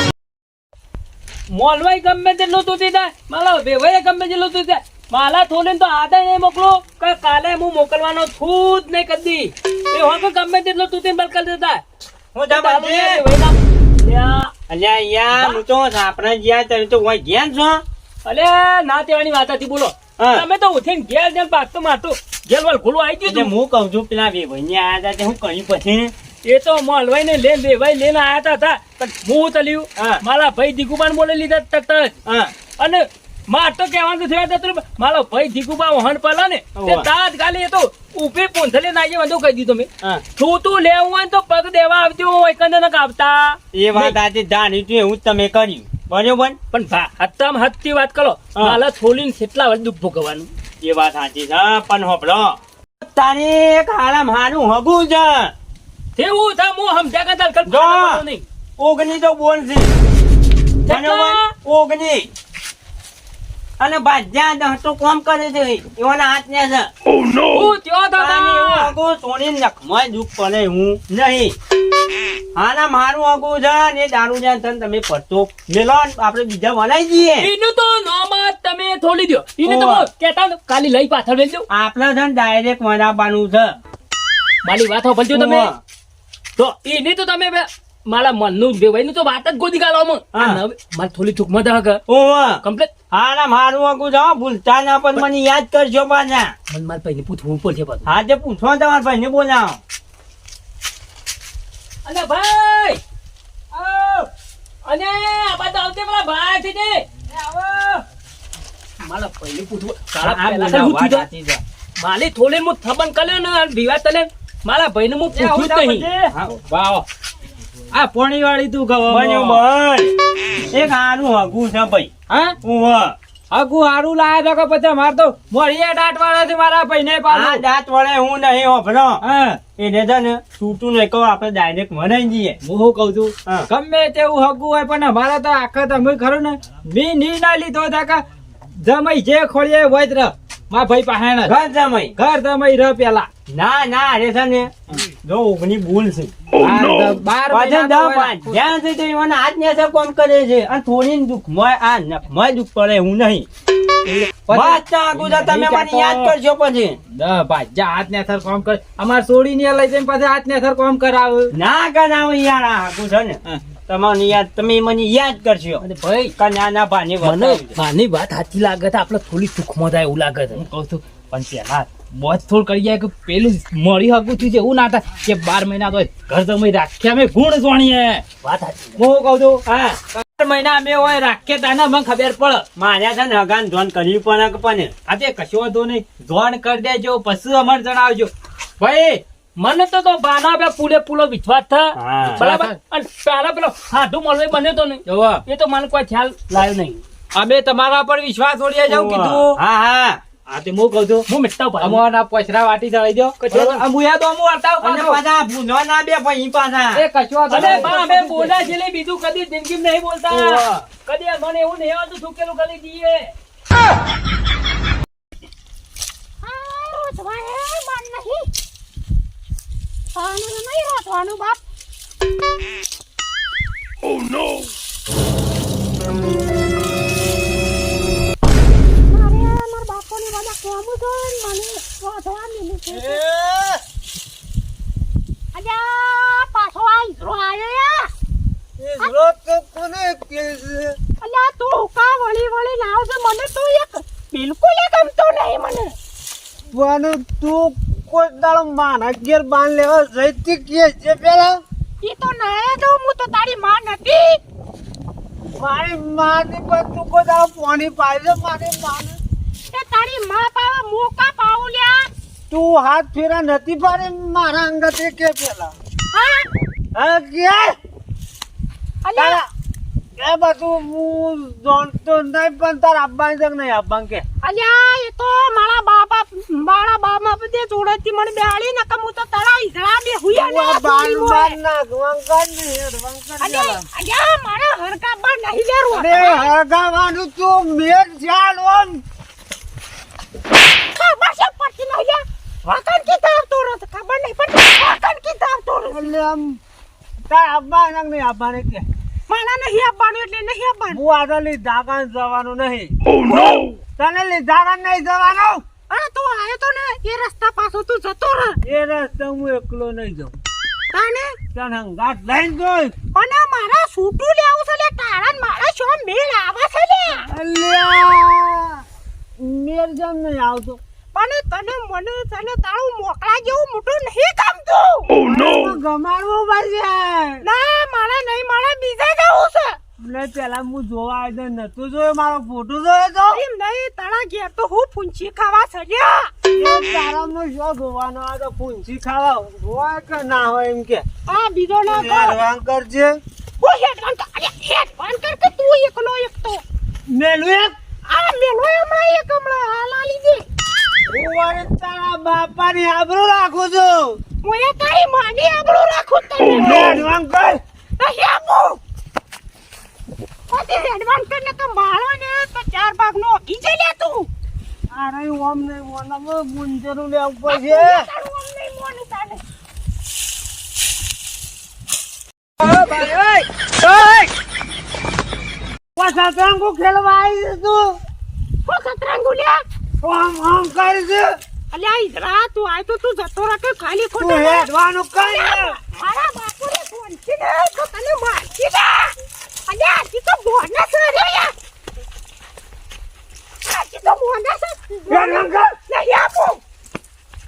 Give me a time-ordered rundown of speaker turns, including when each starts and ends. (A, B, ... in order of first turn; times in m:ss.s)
0:01.5-0:11.8 A
0:12.3-0:13.2 B
0:12.5-0:14.5 A
0:14.7-0:17.8 B
0:15.3-0:15.6 A
0:18.2-0:23.5 A
0:20.2-0:20.4 B
0:23.2-0:26.1 B
0:26.4-0:32.1 A
0:30.0-0:30.2 B
0:32.3-0:32.5 B
0:32.8-0:44.2 A
0:36.8-0:37.1 B
0:43.7-0:46.6 B
0:46.7-0:50.5 A
0:48.5-0:48.8 B
0:50.8-0:55.5 B
0:56.2-0:58.4 A
0:57.7-0:58.2 B
0:58.8-0:59.9 B
1:00.9-1:01.5 A
1:00.9-1:02.3 B
1:03.8-1:06.9 B
1:07.5-1:08.9 A
1:08.2-1:11.5 B
1:12.5-1:17.5 B
1:17.4-1:21.6 A
1:19.6-1:20.1 B
1:21.7-1:23.8 B
1:24.6-1:25.7 A
1:25.3-1:25.8 B
1:26.6-1:32.0 A
1:30.3-1:30.6 B
1:32.1-1:32.6 B
1:32.6-1:32.9 A
1:33.1-1:36.5 B
1:36.7-1:38.1 A
1:38.0-1:39.8 B
1:42.0-1:43.0 A
1:44.8-1:47.0 A
1:47.3-1:48.0 C
1:49.0-1:51.3 A
1:50.2-1:51.6 B
1:52.0-1:56.1 A
1:55.3-1:56.5 B
1:56.6-1:57.0 C
1:57.9-1:59.4 C
1:59.1-2:00.1 B
2:00.6-2:03.2 B
2:03.5-2:07.6 C
2:07.3-2:09.2 B
2:09.2-2:09.6 C
2:09.7-2:12.6 B
2:12.6-2:18.2 C
2:18.8-2:21.5 C
2:21.4-2:22.2 B
2:22.2-2:23.3 C
2:23.5-2:26.6 B
2:26.6-2:28.5 C
2:27.5-2:33.5 B
2:34.5-2:36.2 C
2:34.5-2:37.0 B
2:37.1-2:41.5 C
2:41.5-2:45.8 B
2:45.8-2:46.3 A
2:46.4-2:47.8 B
2:47.2-2:50.6 A
2:50.6-2:58.2 C
2:58.4-2:59.0 A
2:59.0-2:59.6 C
2:59.6-3:00.0 B
3:00.2-3:02.6 C
3:02.7-3:04.9 B
3:05.1-3:08.3 C
3:08.8-3:09.2 B
3:09.6-3:17.0 A
3:12.0-3:12.4 B
3:12.4-3:12.8 C
3:15.1-3:15.4 C
3:17.3-3:19.5 C
3:18.8-3:20.2 B
3:20.5-3:21.2 C
3:21.3-3:22.0 A
3:21.8-3:25.2 C
3:23.4-3:23.8 A
3:24.8-3:27.9 B
3:26.9-3:28.6 C
3:27.5-3:33.3 A
3:30.3-3:30.6 C
3:36.4-3:38.5 D
3:37.0-3:38.0 A
3:40.1-3:41.6 D
3:49.1-3:53.2 D
3:52.9-3:53.8 E
3:55.5-3:58.1 D
3:58.8-4:00.9 E
4:01.2-4:05.9 D
4:06.8-4:11.5 E
4:12.0-4:14.4 D
4:15.6-4:19.2 E
4:19.7-4:22.1 D
4:22.5-4:25.7 E
4:26.1-4:26.5 D
4:27.0-4:27.7 E
4:29.0-4:29.4 D
4:29.2-4:29.4 E
4:30.2-4:34.2 E
4:34.4-4:41.6 D
4:40.3-4:43.8 E
4:43.4-4:46.5 D
4:45.9-4:49.0 E
4:50.9-4:56.1 D
4:55.9-4:56.4 E
4:57.3-4:58.8 E
4:59.3-5:01.0 D
5:00.9-5:02.9 E
5:03.2-5:03.7 D
5:04.0-5:05.6 E
5:05.9-5:08.6 D
5:08.6-5:10.4 E
5:10.9-5:11.4 D
5:11.5-5:12.9 E
5:13.1-5:17.2 D
5:17.3-5:18.8 E
5:19.4-5:20.8 E
5:21.1-5:25.1 D
5:25.2-5:27.4 E
5:27.4-5:29.8 D
5:30.0-5:33.4 E
5:33.3-5:36.3 D
5:36.6-5:41.0 E
5:41.2-5:42.4 D
5:41.8-5:43.2 E
5:43.6-5:46.6 D
5:47.1-5:47.7 E
5:48.1-5:50.4 D
5:51.1-5:54.2 E
5:54.4-5:56.9 D
5:56.5-5:57.6 E
5:58.0-5:58.8 D
6:00.5-6:04.3 D
6:04.9-6:08.1 E
6:07.4-6:09.4 D
6:12.6-6:14.3 A
6:16.0-6:17.9 E
6:18.6-6:19.6 D
6:20.0-6:21.3 E
6:21.7-6:24.7 D
6:24.2-6:25.8 E
6:25.2-6:29.2 D
6:29.7-6:31.5 D
6:33.6-6:36.6 D
6:35.1-6:35.8 E